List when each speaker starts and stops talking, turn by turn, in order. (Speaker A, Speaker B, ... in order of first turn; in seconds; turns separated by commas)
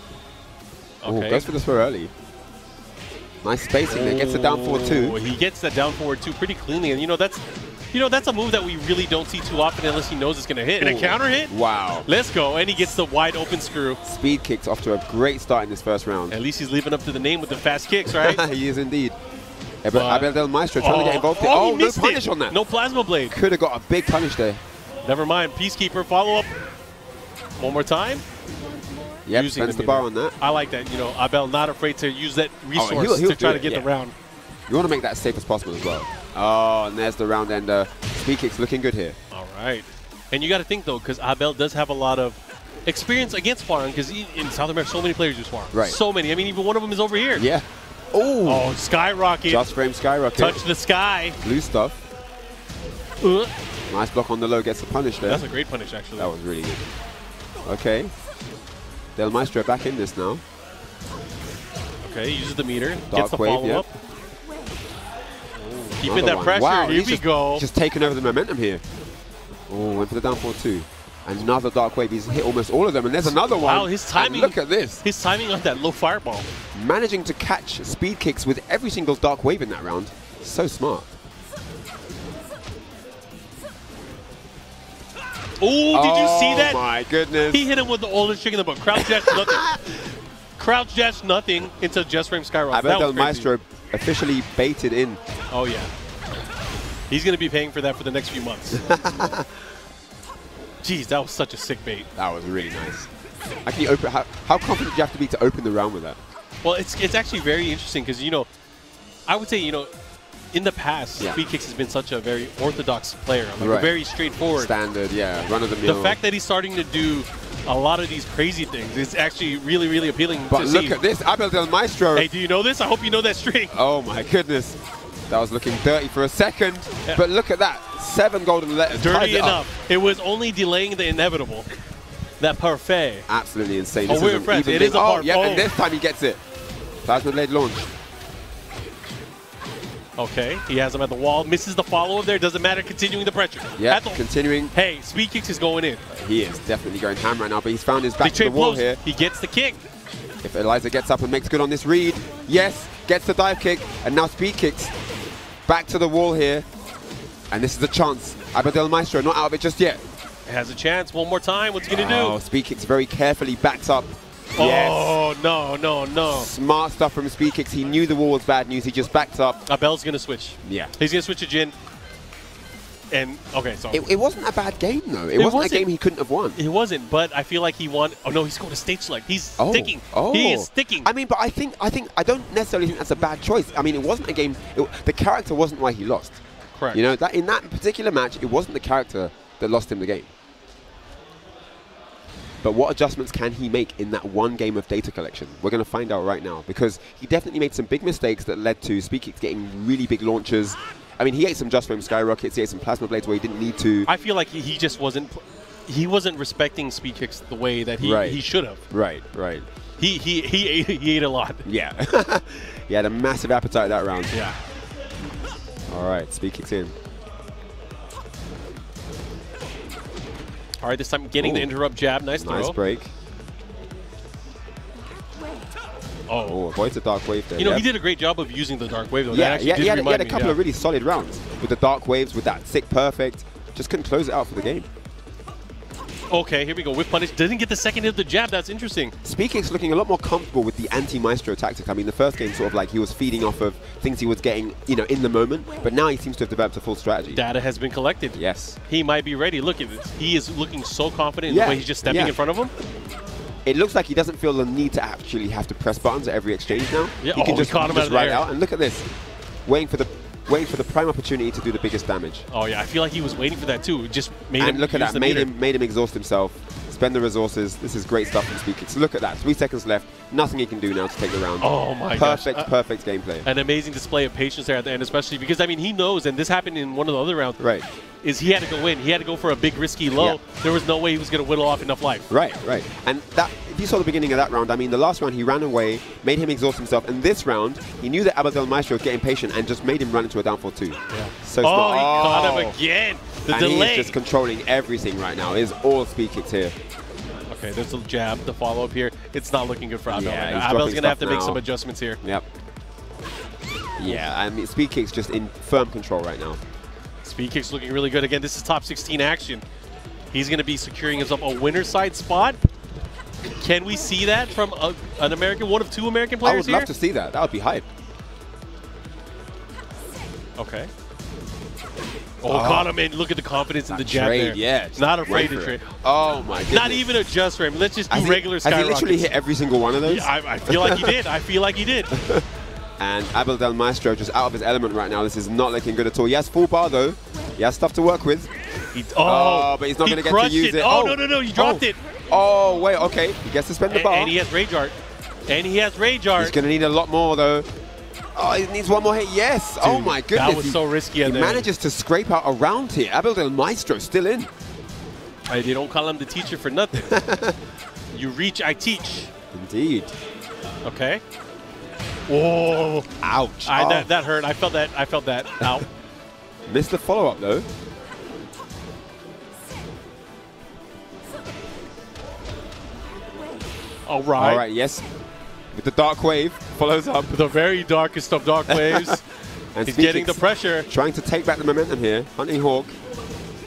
Speaker A: 1.0-1.5, Speaker B: 1.1-2.1, Speaker B: 3.4-5.2, Speaker A: 3.9-14.0, Speaker B: 10.8-12.1, Speaker B: 14.0-16.4, Speaker A: 16.3-18.4, Speaker B: 18.1-19.1, Speaker B: 19.8-22.6, Speaker A: 19.9-23.4, Speaker B: 23.3-24.6, Speaker A: 25.0-26.5, Speaker A: 27.6-28.2, Speaker B: 29.2-30.4, Speaker A: 29.3-34.1, Speaker B: 32.7-33.9, Speaker B: 34.7-39.2, Speaker A: 39.3-47.4, Speaker B: 45.7-46.0, Speaker B: 47.3-48.7, Speaker A: 48.4-49.7, Speaker B: 49.5-50.6, Speaker A: 50.3-51.4, Speaker B: 51.4-52.0, Speaker A: 53.2-53.5, Speaker B: 53.9-55.4, Speaker A: 55.2-56.3, Speaker B: 56.2-56.9, Speaker B: 57.6-58.1, Speaker B: 59.1-60.4, Speaker A: 62.0-63.9, Speaker B: 63.1-63.8, Speaker A: 65.6-67.6, Speaker B: 66.0-68.8, Speaker B: 69.7-75.0, Speaker A: 73.2-76.5, Speaker B: 76.7-81.2, Speaker A: 85.6-86.8, Speaker B: 85.9-87.7, Speaker A: 87.5-89.8, Speaker B: 88.9-89.8, Speaker A: 90.6-93.5, Speaker B: 92.7-95.2, Speaker A: 95.5-95.9, Speaker A: 97.1-98.8, Speaker B: 98.8-99.5, Speaker A: 100.8-102.1, Speaker B: 102.2-103.1, Speaker B: 103.6-106.2, Speaker A: 106.6-108.5, Speaker A: 109.3-109.9, Speaker A: 110.5-114.7, Speaker B: 113.6-114.0, Speaker B: 114.5-116.2, Speaker A: 115.8-121.0, Speaker B: 120.5-122.3, Speaker A: 122.1-123.8, Speaker B: 123.7-124.8, Speaker B: 125.3-129.6, Speaker A: 129.0-131.7, Speaker A: 132.4-133.3, Speaker B: 133.3-136.4, Speaker A: 134.1-135.7, Speaker B: 137.0-137.9, Speaker A: 140.2-146.0, Speaker B: 143.8-144.7, Speaker B: 146.1-149.0, Speaker A: 148.2-149.8, Speaker B: 150.4-154.9, Speaker B: 155.7-156.7, Speaker B: 157.5-160.0, Speaker A: 160.4-162.4, Speaker B: 161.9-165.2, Speaker A: 164.6-166.5, Speaker B: 166.3-169.6, Speaker A: 169.7-171.7, Speaker B: 170.6-170.9, Speaker A: 173.1-174.0, Speaker B: 173.9-176.6, Speaker A: 175.3-175.9, Speaker A: 176.5-181.1, Speaker B: 179.6-186.4, Speaker A: 186.7-187.0, Speaker B: 186.9-190.3, Speaker B: 192.6-204.1, Speaker A: 204.1-208.8, Speaker B: 208.0-209.7, Speaker A: 210.0-211.7, Speaker B: 211.6-214.4, Speaker A: 214.3-214.6, Speaker B: 215.9-216.9, Speaker A: 220.8-222.8, Speaker B: 221.4-221.7, Speaker B: 222.4-223.1, Speaker A: 226.3-226.6, Speaker B: 226.4-227.8, Speaker A: 227.6-230.6, Speaker B: 229.3-234.9, Speaker A: 236.3-239.1, Speaker B: 239.2-247.4, Speaker A: 247.3-252.7, Speaker B: 248.3-248.8, Speaker B: 251.5-252.3, Speaker B: 253.6-259.1, Speaker A: 257.2-258.5, Speaker B: 259.6-262.4, Speaker A: 262.5-265.5, Speaker B: 264.6-273.5, Speaker A: 271.6-272.7, Speaker A: 273.4-277.6, Speaker B: 277.6-277.8, Speaker A: 278.2-282.3, Speaker B: 282.3-292.8, Speaker A: 291.1-294.1, Speaker B: 293.5-296.7, Speaker A: 297.5-302.2, Speaker B: 300.1-301.6, Speaker B: 304.0-306.6, Speaker A: 307.2-309.6, Speaker A: 310.3-312.6, Speaker A: 313.6-316.9, Speaker B: 316.4-317.9, Speaker A: 320.6-320.9, Speaker A: 322.4-325.9, Speaker B: 322.4-322.9, Speaker B: 323.9-327.1, Speaker A: 326.6-329.3, Speaker B: 328.1-331.2, Speaker A: 330.0-332.1, Speaker B: 332.1-332.4, Speaker B: 333.0-338.5, Speaker A: 338.9-342.0, Speaker B: 339.2-344.3, Speaker A: 343.9-344.9, Speaker A: 345.5-346.6, Speaker B: 346.4-347.7, Speaker B: 348.3-354.5, Speaker A: 349.8-351.7, Speaker A: 355.5-357.2, Speaker B: 357.0-357.6, Speaker A: 358.1-359.3, Speaker B: 359.5-360.1, Speaker A: 360.8-361.2, Speaker A: 362.3-363.1, Speaker B: 363.2-364.1, Speaker A: 363.6-365.9, Speaker B: 366.7-367.7, Speaker A: 374.1-374.6, Speaker B: 374.4-375.0, Speaker B: 375.7-377.4, Speaker A: 377.3-379.2, Speaker B: 378.7-379.2, Speaker B: 379.7-382.9, Speaker A: 379.8-380.9